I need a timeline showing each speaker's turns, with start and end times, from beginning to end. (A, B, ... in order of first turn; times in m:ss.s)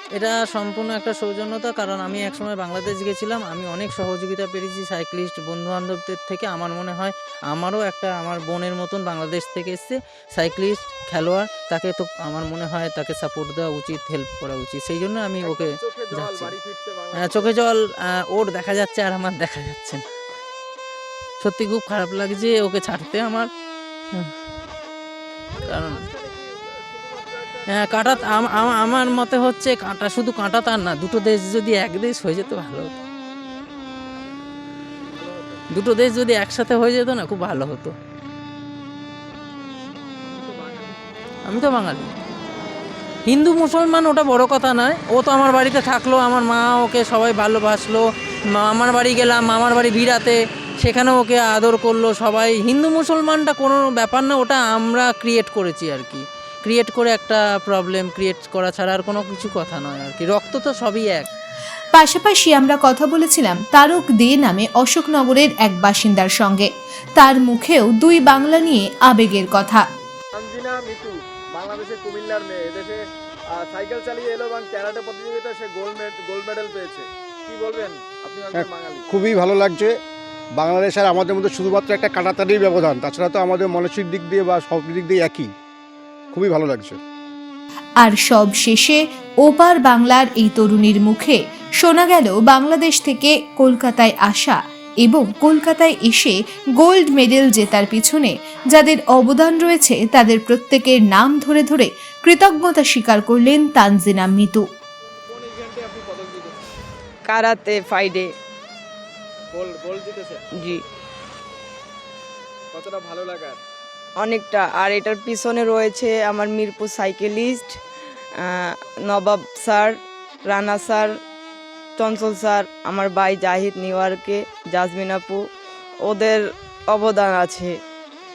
0:00.2-0:16.5 A
0:15.4-0:17.5 B
0:17.1-0:20.0 A
0:21.4-0:23.5 A
0:25.5-0:28.9 B
0:25.6-0:26.1 A
0:27.7-0:32.9 A
0:35.1-0:35.6 B
0:35.7-0:38.0 A
0:40.3-0:40.9 B
0:41.5-0:42.1 A
0:43.3-1:01.3 A
1:01.9-1:09.8 C
1:10.4-1:19.1 B
1:18.5-1:19.9 D
1:20.6-1:25.5 D
1:26.3-1:27.0 D
1:28.0-1:44.6 C
1:45.3-1:46.6 B
1:47.3-1:48.3 E
1:49.5-1:50.8 B
1:50.5-1:50.8 E
1:52.7-1:53.6 B
1:54.2-1:57.8 E
1:58.4-2:00.0 E
2:00.5-2:01.1 E
2:02.0-2:05.4 E
2:06.0-2:07.7 E